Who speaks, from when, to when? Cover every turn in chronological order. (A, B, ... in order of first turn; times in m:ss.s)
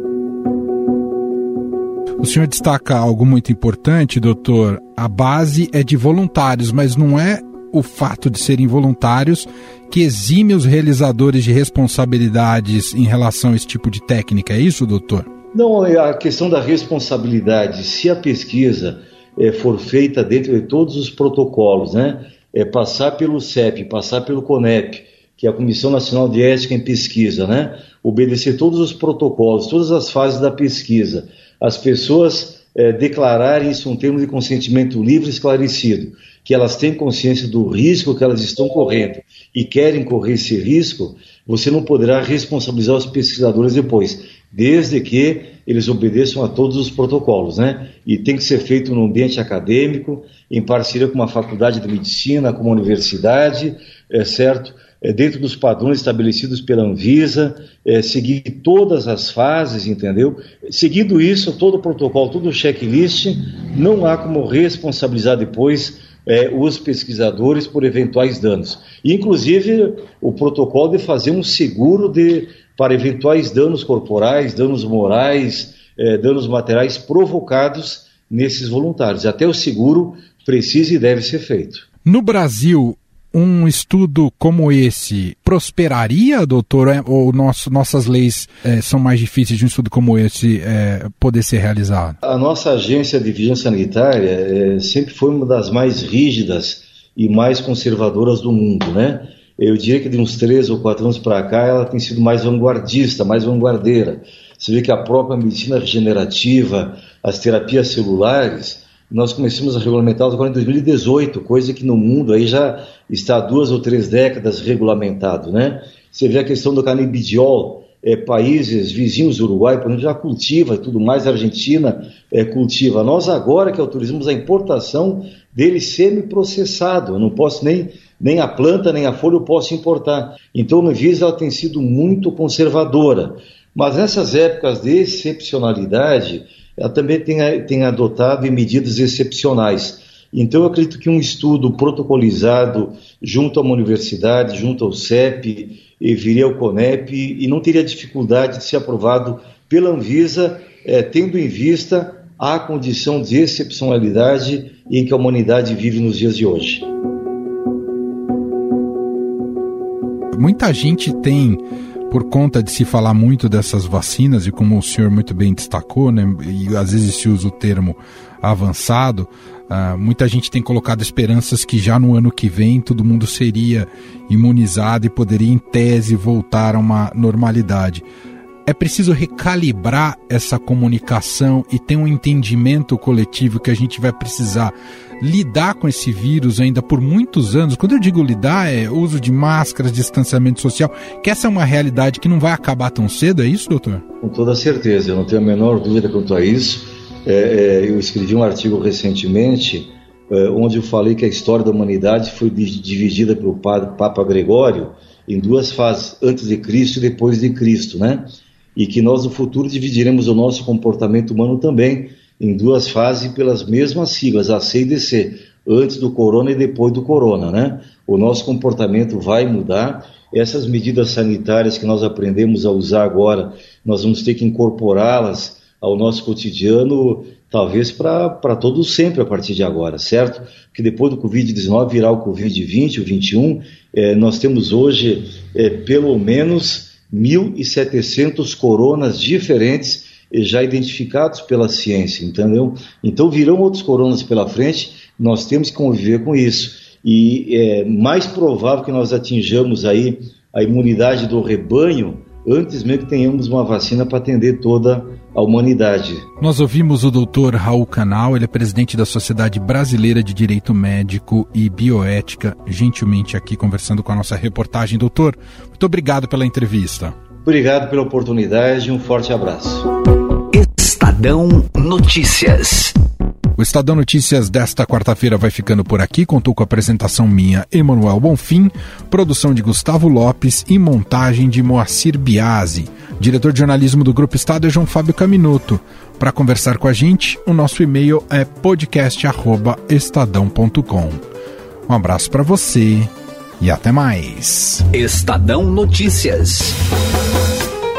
0:02.2-0:15.3 A
0:15.5-1:21.8 B
1:22.0-1:32.2 A
1:32.2-2:36.9 B
2:40.3-2:58.0 A
2:58.6-3:14.0 A
3:14.2-4:16.3 B
4:16.4-4:27.1 A
4:27.4-4:29.9 B
4:30.5-4:32.9 C
4:33.6-4:51.2 A
4:51.9-4:54.8 A
4:54.9-4:56.8 C